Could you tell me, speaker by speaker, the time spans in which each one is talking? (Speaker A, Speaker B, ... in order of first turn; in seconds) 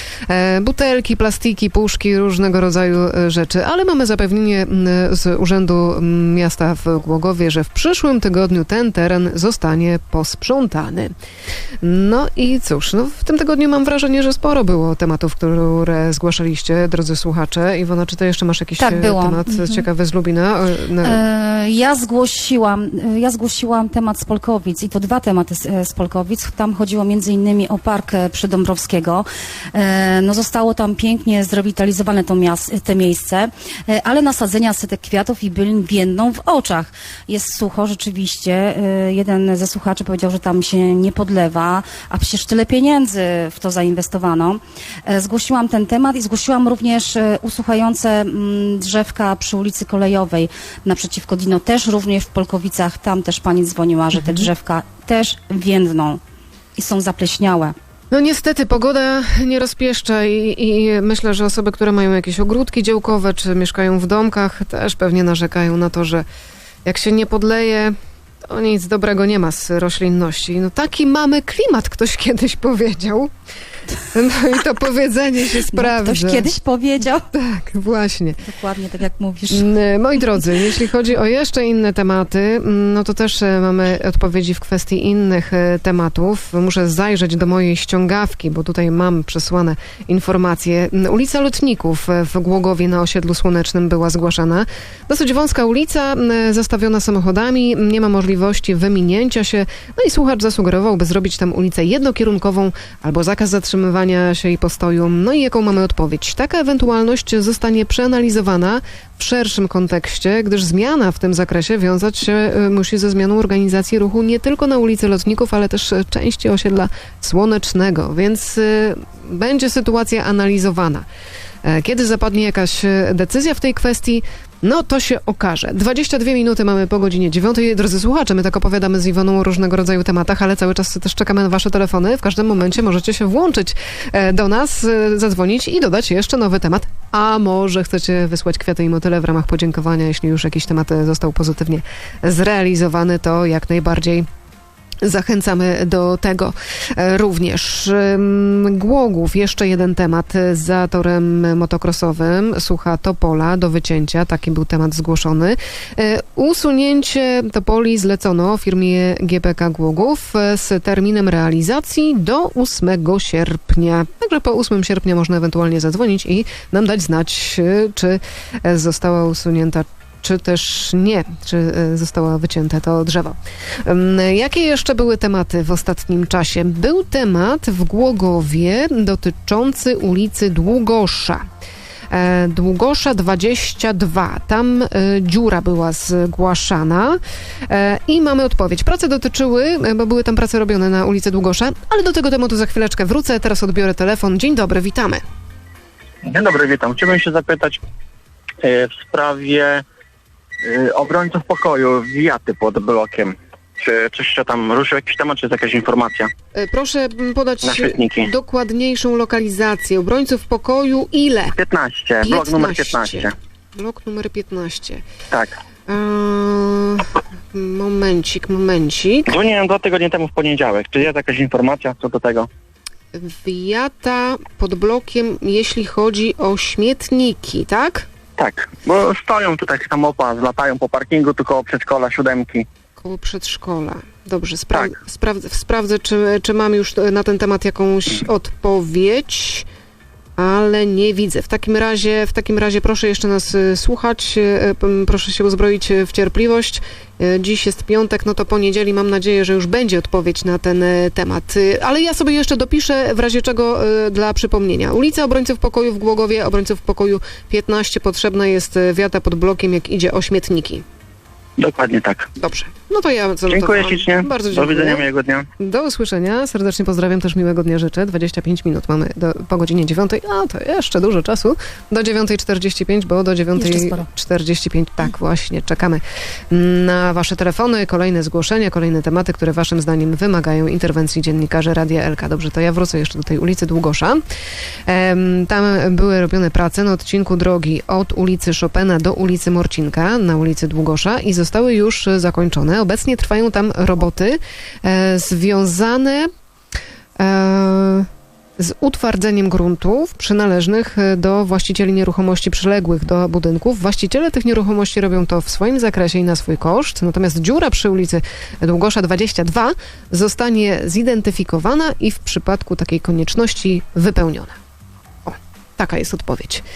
Speaker A: 0.3-11.1, 11.8-21.2, 58.1-66.2, 66.8-73.3, 74.1-76.5, 77.3-78.4, 79.5-121.1, 121.6-144.3, 145.0-181.4, 182.1-195.2, 206.5-211.6, 212.2-215.1, 215.9-219.4, 223.1-228.1, 233.0-239.7, 240.4-260.9, 262.4-265.1, 265.6-284.2, 284.9-296.3, 297.2-314.6, 315.2-316.6
Speaker B: 18.8-19.9, 21.0-56.2, 56.8-57.8, 75.7-77.3, 78.4-79.7, 273.6-274.1
Speaker C: 196.2-197.8, 198.6-199.8, 200.6-206.3, 207.6-208.3, 211.5-213.3, 219.3-222.5, 228.4-232.7, 261.6-262.3, 263.5-265.5